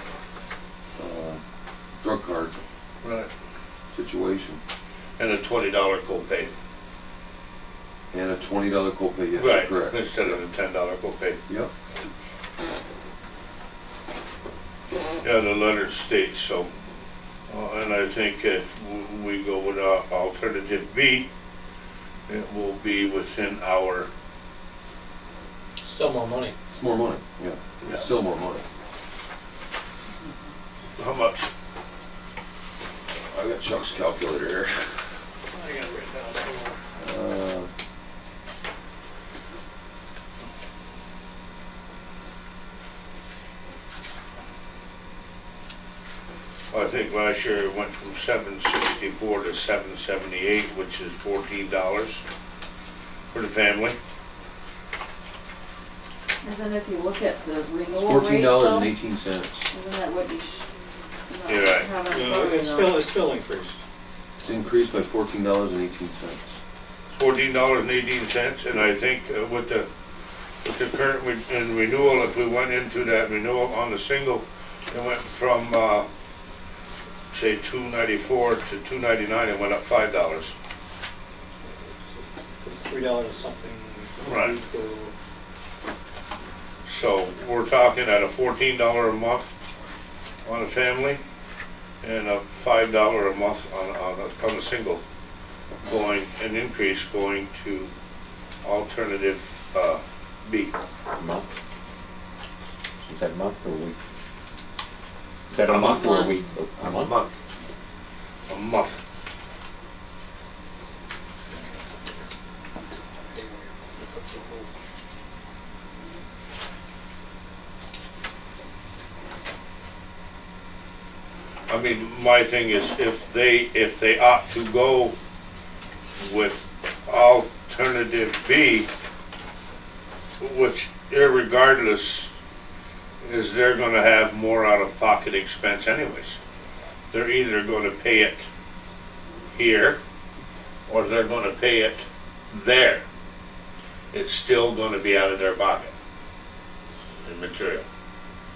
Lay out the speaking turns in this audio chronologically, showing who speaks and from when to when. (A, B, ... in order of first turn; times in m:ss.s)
0:01.0-0:01.4 A
0:02.0-0:02.6 A
0:03.0-0:03.3 B
0:03.9-0:04.6 A
0:05.2-0:06.5 B
0:08.1-0:10.5 A
0:09.4-0:11.4 B
0:15.2-0:16.7 B
0:17.5-0:21.3 B
0:22.3-0:24.1 B
0:25.8-0:26.6 C
0:26.7-0:28.7 A
0:31.0-0:31.5 B
0:33.3-0:34.8 A
0:35.5-0:36.8 C
0:37.0-0:37.7 A
0:46.7-0:52.2 B
0:53.3-0:54.0 B
0:56.4-0:58.9 D
0:58.0-0:59.7 A
0:59.7-1:00.7 D
1:01.3-1:03.1 D
1:01.5-1:01.9 B
1:02.1-1:03.8 C
1:04.4-1:06.6 A
1:07.1-1:09.9 B
1:10.6-1:16.0 B
1:17.3-1:20.6 B
1:22.6-1:25.1 C
1:24.2-1:24.6 B
1:26.8-1:29.5 B
1:30.4-1:31.2 B
1:32.0-1:35.0 B
1:35.8-1:37.9 B
1:38.6-1:40.8 B
1:41.1-1:41.4 E
1:43.0-1:44.0 E
1:45.5-1:47.1 E
1:45.6-1:46.2 B
1:45.9-1:46.3 D
1:46.8-1:47.4 B
1:48.5-1:49.0 B
1:54.0-1:54.6 C
2:01.7-2:05.2 B
2:06.2-2:08.9 B
2:10.4-2:12.3 B
2:13.2-2:16.4 B
2:17.1-2:18.5 B
2:19.5-2:20.0 B
2:20.9-2:23.0 B
2:24.1-2:25.9 B
2:27.2-2:27.8 B